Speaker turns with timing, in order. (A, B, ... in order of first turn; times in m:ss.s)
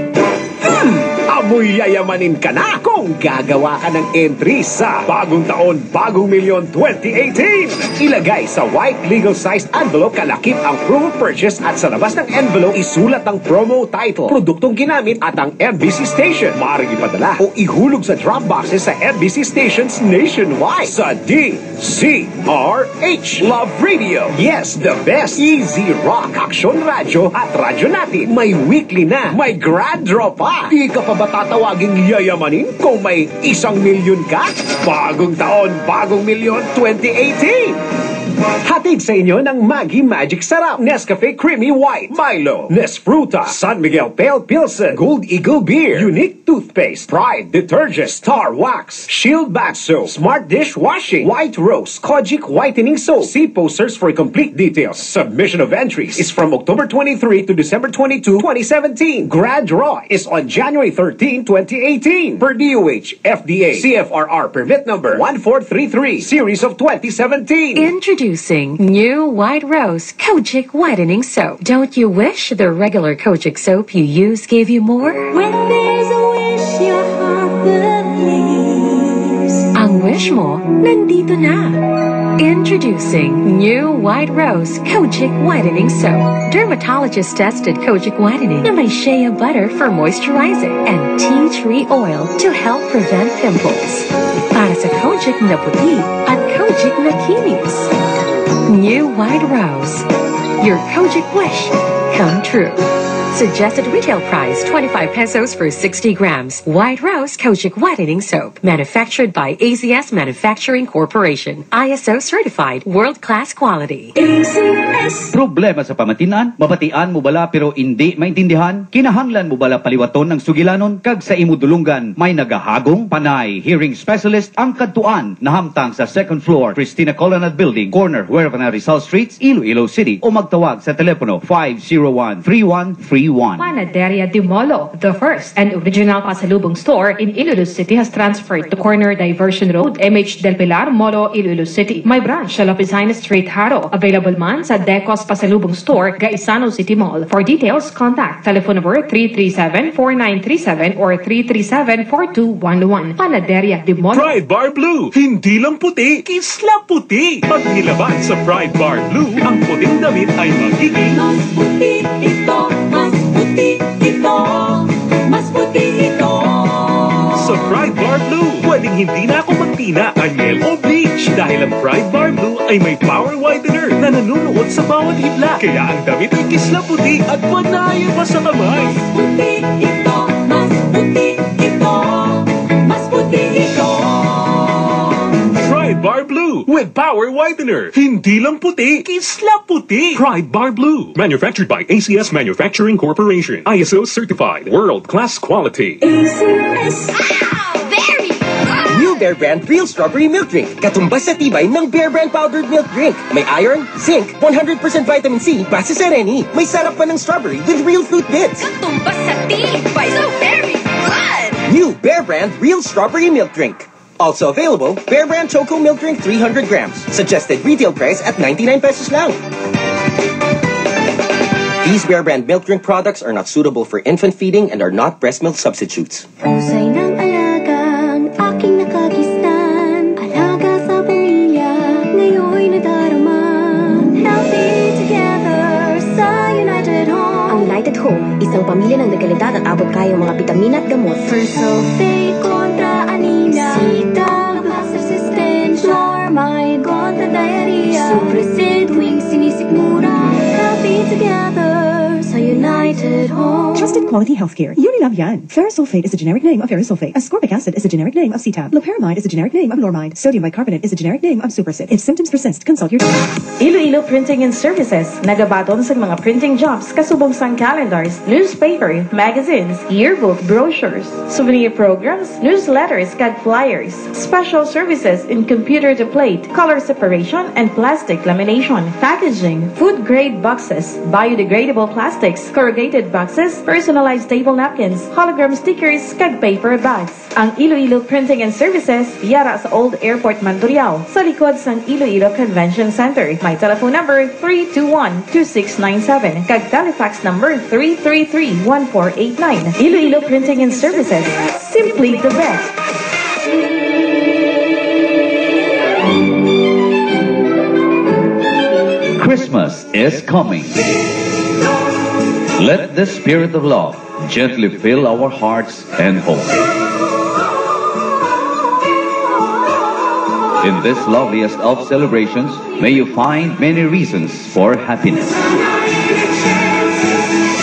0:01.3-0:37.8 A
0:08.3-0:08.6 B
0:38.7-1:07.8 A
1:07.7-1:15.3 C
1:15.3-1:19.6 D
1:19.8-1:21.8 C
1:20.8-1:21.3 D
1:22.4-1:37.9 C
1:38.7-1:40.1 C
1:40.6-1:54.2 C
1:54.2-1:55.3 D
1:55.3-2:13.7 E
2:13.6-2:34.4 F
2:34.1-2:41.0 G
2:41.0-2:47.3 D
2:47.4-2:58.9 G
2:58.8-3:05.3 D
3:05.6-3:16.0 G
3:16.0-3:17.2 D
3:18.9-3:28.6 H
3:31.7-3:39.4 H
3:41.8-3:46.2 H
3:46.6-3:57.7 D
3:57.5-4:01.4 B
4:01.3-4:13.8 D
4:13.8-4:23.1 I
4:23.6-5:02.8 J
5:09.2-5:10.8 E
5:12.6-5:16.6 E
5:20.6-5:25.4 E